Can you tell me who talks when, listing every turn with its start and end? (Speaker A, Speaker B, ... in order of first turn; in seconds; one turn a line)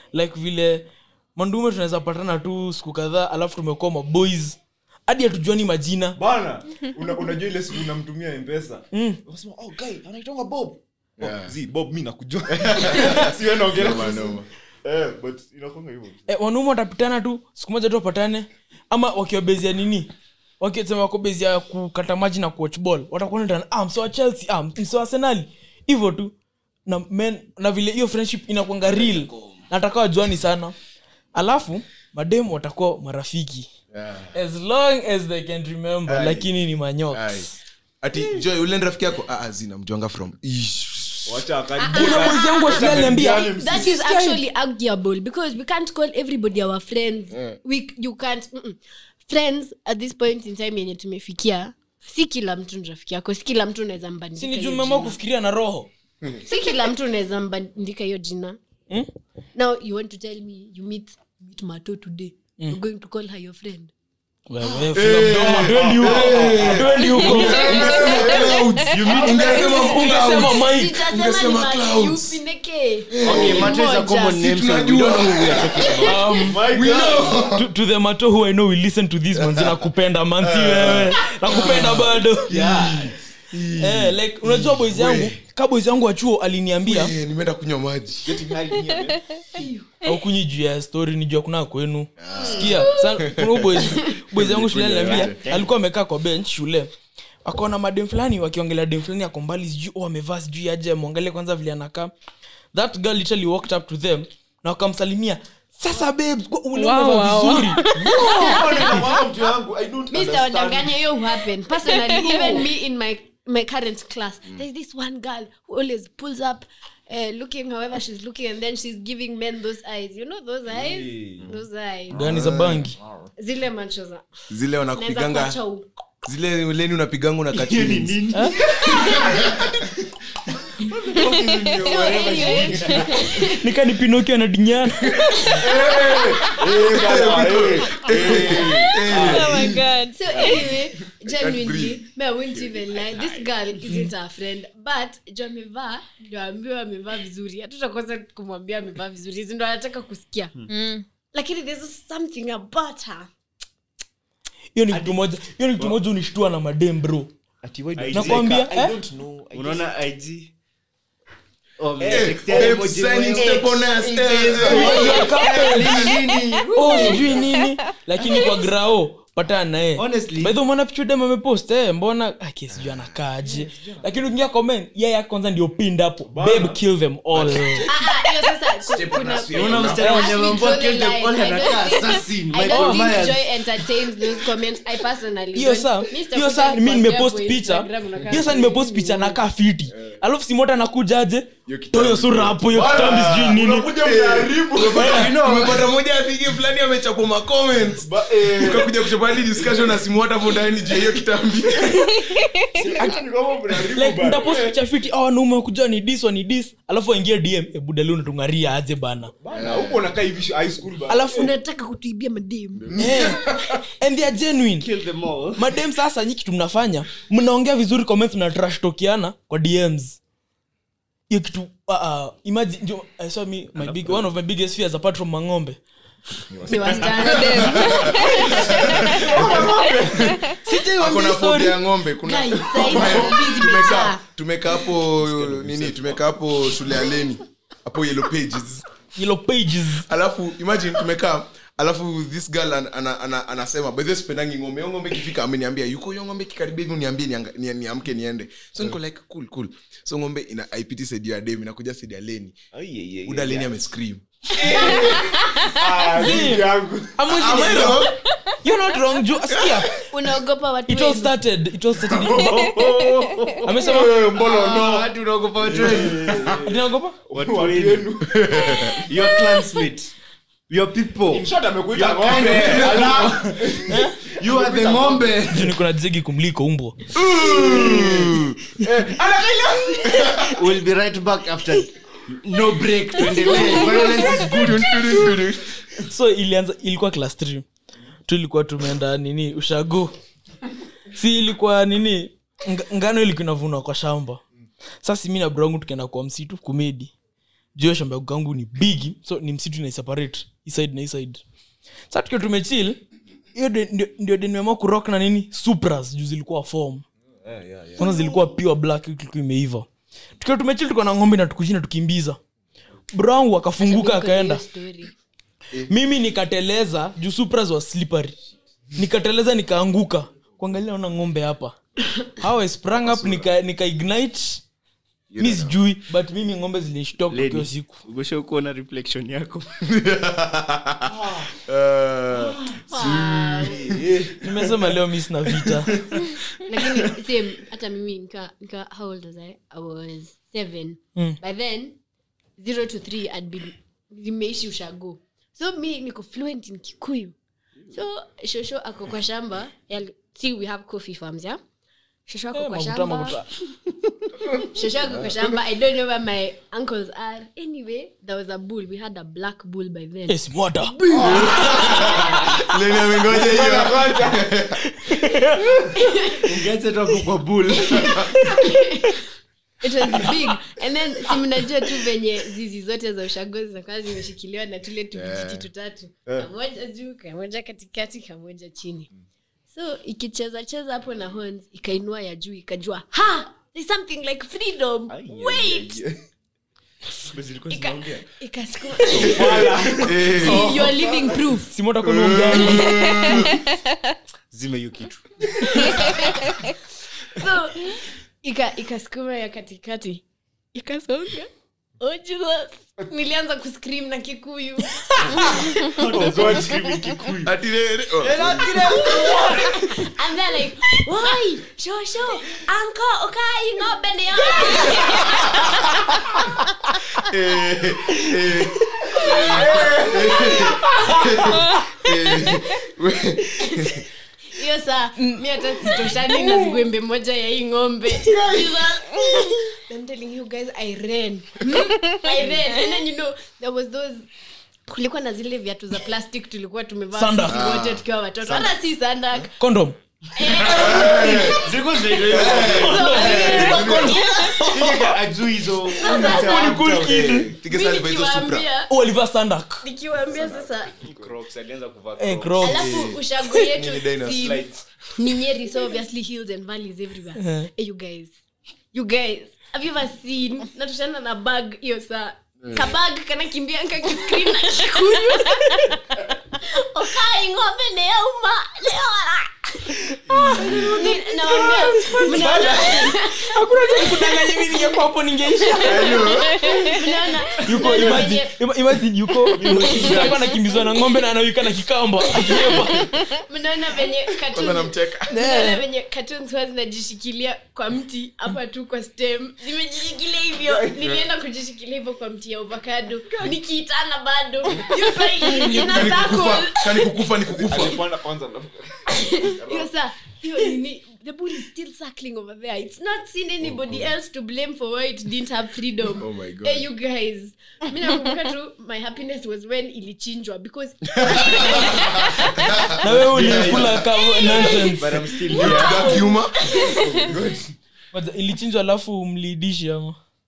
Speaker A: 0.1-6.2
Speaker B: 6.2-16.3
Speaker A: 8.9-9.2
Speaker C: 11.2-11.5
Speaker C: 12.5-14.5
Speaker A: 16.3-26.3
Speaker A: 26.9-30.7
Speaker A: 31.3-33.7
Speaker C: 33.9-34.3
Speaker A: 34.3-37.5
Speaker C: 36.0-36.5
Speaker C: 37.1-37.5
Speaker C: 38.0-41.4
Speaker B: 41.2-44.0
Speaker D: 41.8-55.2
Speaker A: 41.9-44.4
Speaker C: 47.3-47.6
Speaker A: 54.4-55.9
Speaker D: 56.4-58.6
Speaker D: 59.5-63.9
Speaker A: 64.5-68.0
Speaker B: 64.8-68.5
Speaker C: 64.9-72.4
Speaker D: 67.3-68.4
Speaker E: 67.6-68.9
Speaker F: 68.9-69.8
Speaker B: 69.0-69.7
Speaker D: 69.2-74.5
Speaker A: 69.4-71.0
Speaker C: 73.1-77.7
Speaker F: 73.2-76.5
Speaker D: 75.8-76.1
Speaker A: 76.0-83.1
Speaker B: 76.3-77.5
Speaker C: 79.3-79.9
Speaker C: 80.4-85.4
Speaker B: 82.5-82.9
Speaker A: 83.8-87.1
Speaker C: 86.8-88.3
Speaker B: 88.2-89.2
Speaker D: 89.5-89.9
Speaker A: 90.0-96.9
Speaker C: 92.2-95.5
Speaker F: 95.0-95.7
Speaker A: 97.4-102.1
Speaker A: 102.7-108.0
Speaker E: 106.7-108.9
Speaker B: 108.0-111.0
Speaker D: 108.1-108.9
Speaker D: 110.1-122.2
Speaker E: 112.0-112.6
Speaker B: 120.7-121.5
Speaker C: 122.1-122.9
Speaker A: 122.1-123.0
Speaker B: 123.0-123.3
Speaker D: 123.4-124.2
Speaker C: 124.5-125.6
Speaker D: 124.9-125.9
Speaker C: 126.2-128.2
Speaker F: 127.5-129.3
Speaker A: 128.3-128.6
Speaker B: 128.7-129.9
Speaker C: 129.0-129.7
Speaker B: 130.8-133.2
Speaker C: 131.3-132.2
Speaker E: 131.3-132.8
Speaker D: 131.8-133.7
Speaker F: 131.8-133.0
Speaker A: 133.5-135.1
Speaker C: 135.0-135.6
Speaker D: 135.4-135.9
Speaker B: 135.5-139.7
Speaker C: 136.8-139.8
Speaker F: 138.4-139.4
Speaker E: 139.1-140.4
Speaker D: 140.1-150.5
Speaker B: 140.4-140.8
Speaker C: 141.2-142.0
Speaker B: 142.6-143.2
Speaker E: 150.7-151.0
Speaker D: 151.3-153.3
Speaker A: 154.7-157.3
Speaker B: 157.6-159.9
Speaker F: 157.9-158.7
Speaker A: 158.1-159.0
Speaker F: 159.5-160.5
Speaker F: 161.8-167.5
Speaker B: 162.0-165.3
Speaker C: 162.1-166.2
Speaker A: 164.6-166.1
Speaker A: 166.7-177.9
Speaker B: 167.1-167.4
Speaker E: 167.6-168.6
Speaker F: 169.9-170.6
Speaker C: 172.7-173.2
Speaker B: 173.4-174.3
Speaker B: 176.3-176.8
Speaker C: 177.3-178.1
Speaker D: 177.8-189.4
Speaker C: 178.8-180.2
Speaker F: 179.5-183.6
Speaker A: 180.0-180.4
Speaker A: 182.7-183.1
Speaker A: 185.5-193.9
Speaker B: 188.2-188.5
Speaker C: 189.9-190.2
Speaker C: 191.7-202.2
Speaker B: 192.6-195.8
Speaker A: 194.9-195.3
Speaker F: 195.0-195.8
Speaker B: 197.9-200.0
Speaker B: 200.8-201.1
Speaker B: 202.8-204.8
Speaker A: 202.8-203.2
Speaker A: 203.8-209.3
Speaker B: 209.4-211.5
Speaker C: 209.5-210.1
Speaker A: 211.1-211.5
Speaker D: 211.3-212.9
Speaker C: 212.8-213.8
Speaker A: 212.9-214.9
Speaker F: 214.8-215.7
Speaker A: 215.6-220.2
Speaker A: 221.3-225.8
Speaker B: 223.8-224.2
Speaker B: 226.5-230.4
Speaker D: 226.7-229.1
Speaker C: 226.7-238.8
Speaker E: 227.2-229.2
Speaker A: 230.5-231.8
Speaker D: 232.2-234.2
Speaker B: 232.9-233.3
Speaker B: 234.9-236.3
Speaker A: 239.1-240.1
Speaker C: 240.1-252.6
Speaker B: 252.7-253.7
Speaker C: 253.2-254.2
Speaker B: 254.5-257.8
Speaker A: 256.1-260.1
Speaker C: 257.3-258.1
Speaker C: 259.5-259.9
Speaker D: 260.1-261.4
Speaker A: 260.9-262.8
Speaker B: 262.1-265.1
Speaker F: 262.7-263.7
Speaker A: 263.6-264.2
Speaker C: 263.8-266.6
Speaker F: 264.3-266.6
Speaker B: 265.6-269.0
Speaker A: 266.6-267.2
Speaker F: 267.3-268.2
Speaker C: 268.3-269.0
Speaker F: 269.0-270.1
Speaker F: 270.7-275.8
Speaker B: 271.3-275.6
Speaker C: 272.5-273.3
Speaker A: 273.9-274.1
Speaker A: 275.5-277.1
Speaker C: 277.1-278.6
Speaker B: 277.3-280.5
Speaker F: 277.6-278.1
Speaker C: 280.1-280.5
Speaker F: 280.4-285.3
Speaker B: 283.2-284.2
Speaker C: 283.7-285.7
Speaker A: 286.1-287.6
Speaker A: 288.3-290.1
Speaker A: 291.1-294.4
Speaker A: 295.0-297.1
Speaker A: 297.7-301.4
Speaker A: 302.1-307.0
Speaker B: 307.4-308.1
Speaker A: 308.0-309.9
Speaker D: 308.0-308.5
Speaker A: 310.4-312.4
Speaker A: 313.1-314.6
Speaker D: 313.8-315.1
Speaker A: 315.9-318.4
Speaker A: 318.9-324.6
Speaker C: 322.9-323.5
Speaker C: 325.3-325.7
Speaker A: 325.4-328.0
Speaker F: 327.3-329.8
Speaker C: 329.8-334.1
Speaker B: 331.1-331.5
Speaker B: 332.3-332.8
Speaker D: 332.9-333.8
Speaker B: 333.6-337.1
Speaker A: 334.4-336.0
Speaker D: 336.6-342.0
Speaker D: 342.6-347.4
Speaker D: 347.9-351.6
Speaker D: 352.2-353.4
Speaker A: 352.5-353.4
Speaker D: 354.6-362.4
Speaker A: 360.3-360.9
Speaker B: 361.1-362.5
Speaker C: 361.1-364.8
Speaker B: 363.3-364.5
Speaker A: 364.8-365.8
Speaker D: 365.9-366.5
Speaker F: 366.4-368.3
Speaker C: 367.9-368.2
Speaker D: 368.2-369.2
Speaker D: 369.8-379.1
Speaker C: 375.1-375.7
Speaker D: 379.7-386.0
Speaker B: 385.1-386.2
Speaker F: 387.3-388.2
Speaker D: 387.7-389.7
Speaker B: 389.1-391.4
Speaker C: 389.1-390.9
Speaker F: 389.2-390.1
Speaker D: 390.2-391.7
Speaker A: 391.7-393.3
Speaker C: 392.0-393.6
Speaker E: 393.4-393.8
Speaker F: 394.5-396.1
Speaker D: 395.6-396.4
Speaker D: 397.3-406.1
Speaker F: 405.9-407.4
Speaker B: 405.9-407.5
Speaker C: 407.4-408.9
Speaker F: 408.2-409.7
Speaker B: 408.2-409.9
Speaker D: 408.7-416.4
Speaker C: 414.9-415.8
Speaker C: 417.1-424.1
Speaker D: 419.1-421.3
Speaker B: 419.2-420.7
Speaker D: 423.6-423.9
Speaker D: 424.5-434.3
Speaker A: 425.2-426.7
Speaker E: 431.7-432.4
Speaker D: 434.9-439.5
Speaker A: 437.1-437.7
Speaker C: 437.5-438.7
Speaker A: 439.6-440.0
Speaker D: 440.3-444.7
Speaker C: 440.5-444.3
Speaker F: 440.9-443.9
Speaker B: 442.3-442.8
Speaker A: 442.6-445.1
Speaker F: 444.6-447.3
Speaker D: 445.9-446.7
Speaker A: 446.0-447.5
Speaker B: 446.2-447.4
Speaker C: 447.0-448.7
Speaker D: 447.7-448.9
Speaker A: 448.9-449.8
Speaker D: 449.8-450.9
Speaker B: 450.2-451.3
Speaker F: 451.0-452.8
Speaker A: 452.2-452.9
Speaker D: 452.6-458.4
Speaker C: 452.7-454.6
Speaker A: 457.4-457.7
Speaker D: 458.9-466.0
Speaker C: 462.6-462.9
Speaker D: 466.5-474.4
Speaker A: 470.1-470.7
Speaker C: 470.3-471.0
Speaker B: 470.5-471.1
Speaker A: 471.5-476.4
Speaker B: 472.3-473.0
Speaker C: 475.8-476.8
Speaker D: 476.2-478.6
Speaker E: 476.3-477.0
Speaker A: 477.6-483.2
Speaker B: 477.8-478.3
Speaker B: 479.5-480.3
Speaker D: 479.6-480.8
Speaker F: 479.6-480.4
Speaker D: 482.4-497.3
Speaker C: 484.5-485.3
Speaker A: 485.3-485.8
Speaker B: 490.6-491.2
Speaker C: 495.5-498.0
Speaker A: 495.6-496.0
Speaker B: 497.6-499.9
Speaker D: 499.1-512.9
Speaker B: 503.7-504.1
Speaker C: 506.1-506.9
Speaker C: 511.2-514.0
Speaker A: 513.0-515.2
Speaker F: 513.0-516.2
Speaker D: 514.1-514.9
Speaker C: 515.5-516.9
Speaker D: 515.5-517.0
Speaker B: 516.9-517.6
Speaker F: 516.9-517.6
Speaker A: 518.1-520.2